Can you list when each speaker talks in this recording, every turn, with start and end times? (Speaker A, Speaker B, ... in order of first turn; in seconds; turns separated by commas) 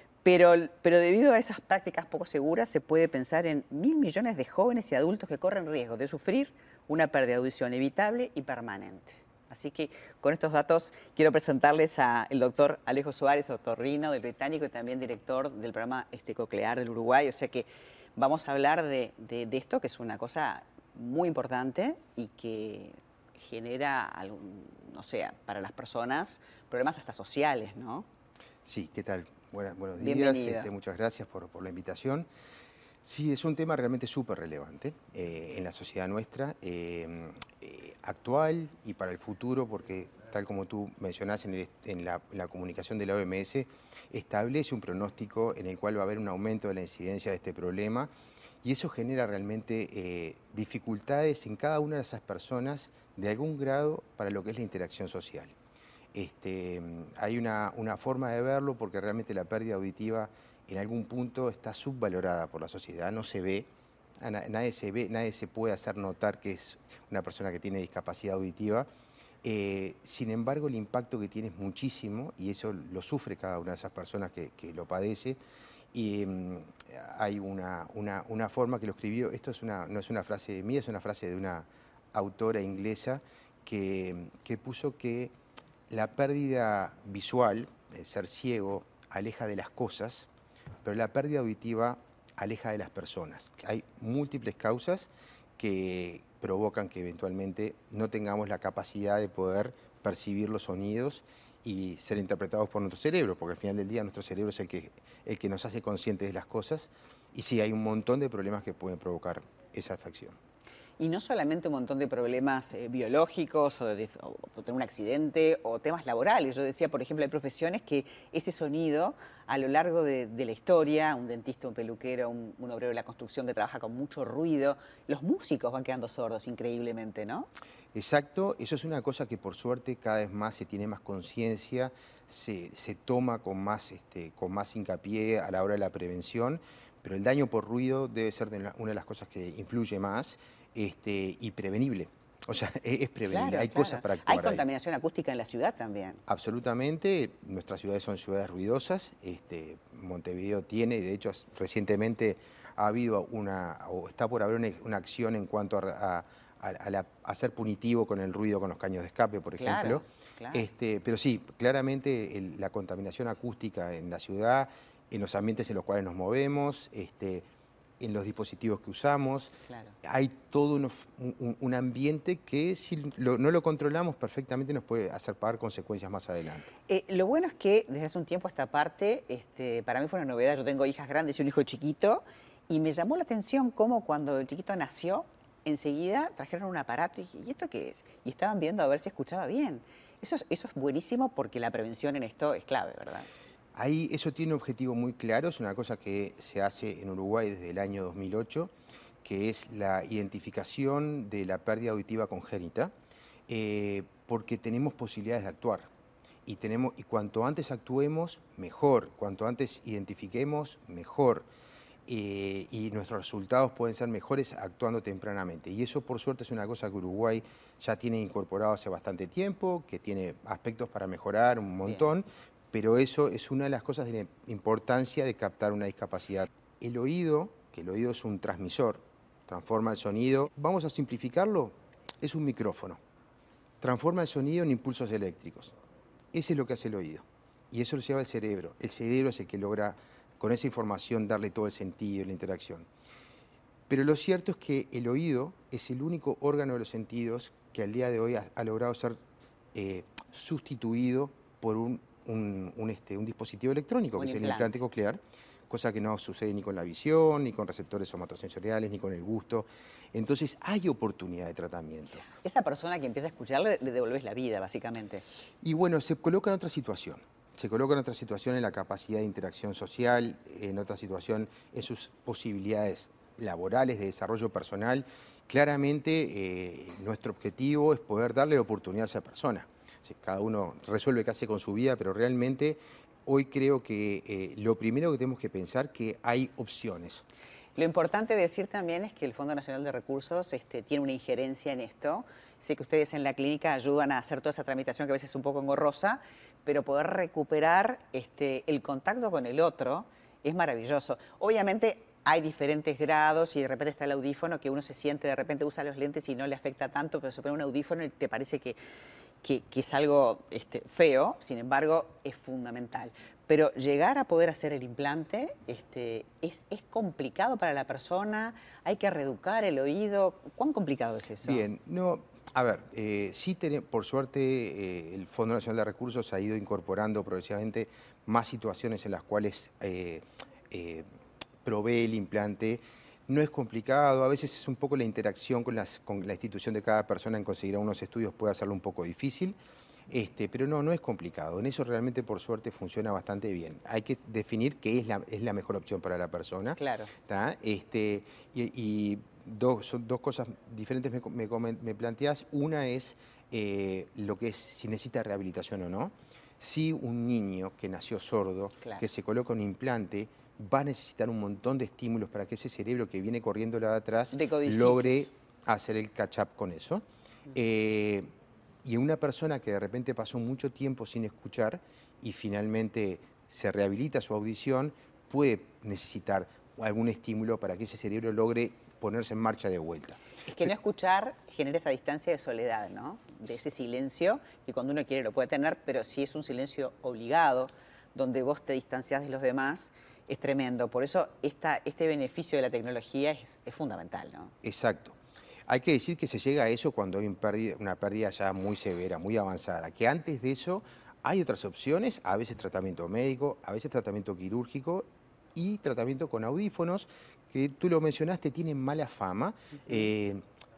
Speaker A: 0.2-28.1, Speaker B: 28.6-32.3, Speaker A: 30.0-30.7, Speaker B: 33.0-48.1, Speaker B: 48.6-55.5, Speaker B: 56.1-63.7, Speaker B: 64.2-68.9, Speaker B: 69.4-75.4, Speaker B: 75.9-85.3, Speaker B: 85.9-90.3, Speaker B: 90.8-110.4, Speaker A: 111.0-127.5, Speaker B: 127.9-144.6, Speaker A: 143.2-146.2, Speaker B: 146.3-167.4, Speaker A: 159.6-160.7, Speaker B: 168.0-176.7, Speaker A: 169.7-169.9, Speaker A: 176.9-193.3, Speaker B: 193.7-198.7, Speaker B: 199.2-202.9, Speaker B: 203.5-205.9, Speaker B: 206.4-211.5, Speaker B: 212.1-233.0, Speaker B: 233.8-235.7, Speaker B: 236.3-242.9, Speaker B: 243.9-249.2, Speaker B: 249.7-262.2, Speaker A: 254.2-254.8, Speaker A: 262.3-265.2, Speaker B: 265.6-287.2, Speaker A: 287.8-308.8, Speaker A: 309.4-321.6, Speaker B: 321.4-331.0, Speaker B: 331.6-339.6, Speaker B: 340.1-368.3, Speaker A: 346.8-347.1, Speaker A: 364.3-365.2, Speaker B: 368.8-380.2, Speaker A: 380.4-394.5, Speaker B: 394.6-410.4